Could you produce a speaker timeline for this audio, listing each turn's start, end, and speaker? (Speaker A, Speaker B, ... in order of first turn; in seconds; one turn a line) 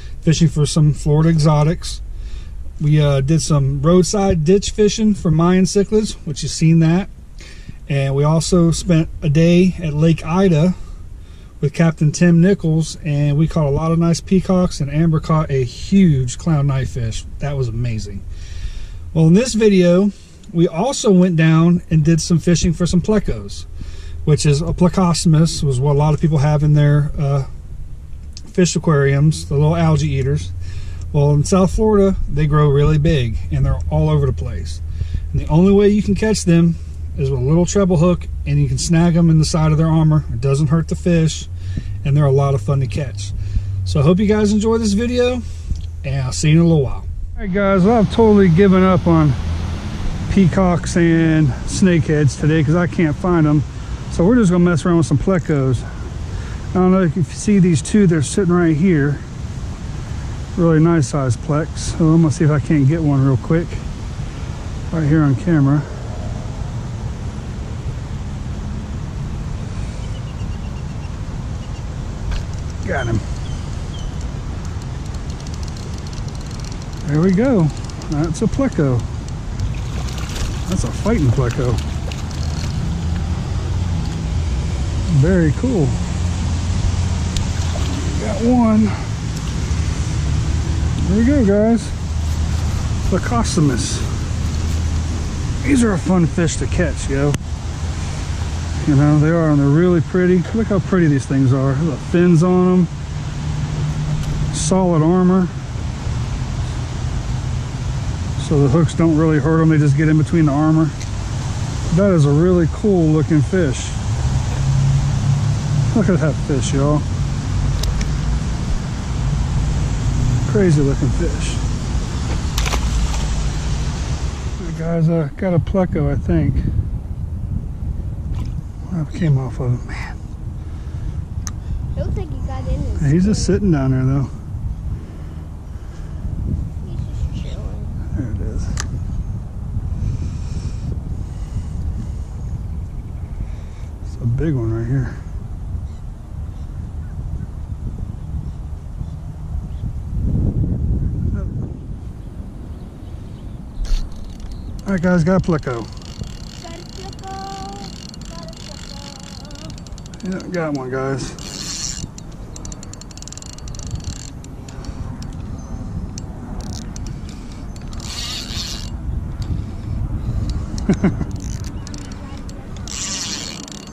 Speaker A: 0.2-2.0
Speaker A: 2.8-7.1
Speaker A: 7.9-10.8
Speaker A: 11.6-18.2
Speaker A: 19.1-23.7
Speaker A: 24.2-27.5
Speaker A: 28.5-30.5
Speaker A: 31.1-41.5
Speaker A: 42.0-45.4
Speaker A: 46.0-49.4
Speaker A: 50.3-55.9
Speaker A: 56.7-59.2
Speaker A: 60.5-63.9
Speaker A: 64.9-65.9
Speaker A: 72.8-73.2
Speaker A: 77.0-79.1
Speaker A: 80.7-81.8
Speaker A: 85.1-86.0
Speaker A: 87.9-89.1
Speaker A: 91.0-92.0
Speaker A: 93.1-94.1
Speaker A: 95.6-97.4
Speaker A: 98.8-102.9
Speaker A: 104.5-105.5
Speaker A: 108.4-111.0
Speaker A: 111.9-114.0
Speaker A: 115.9-117.1
Speaker A: 120.4-121.6
Speaker A: 124.6-126.7
Speaker A: 128.9-130.2
Speaker B: 131.9-133.6
Speaker A: 133.0-134.3
Speaker B: 136.8-138.0
Speaker A: 138.1-138.7
Speaker A: 144.1-145.2
Speaker A: 154.8-155.9
Speaker B: 156.6-159.8
Speaker A: 160.2-161.4
Speaker B: 172.6-172.9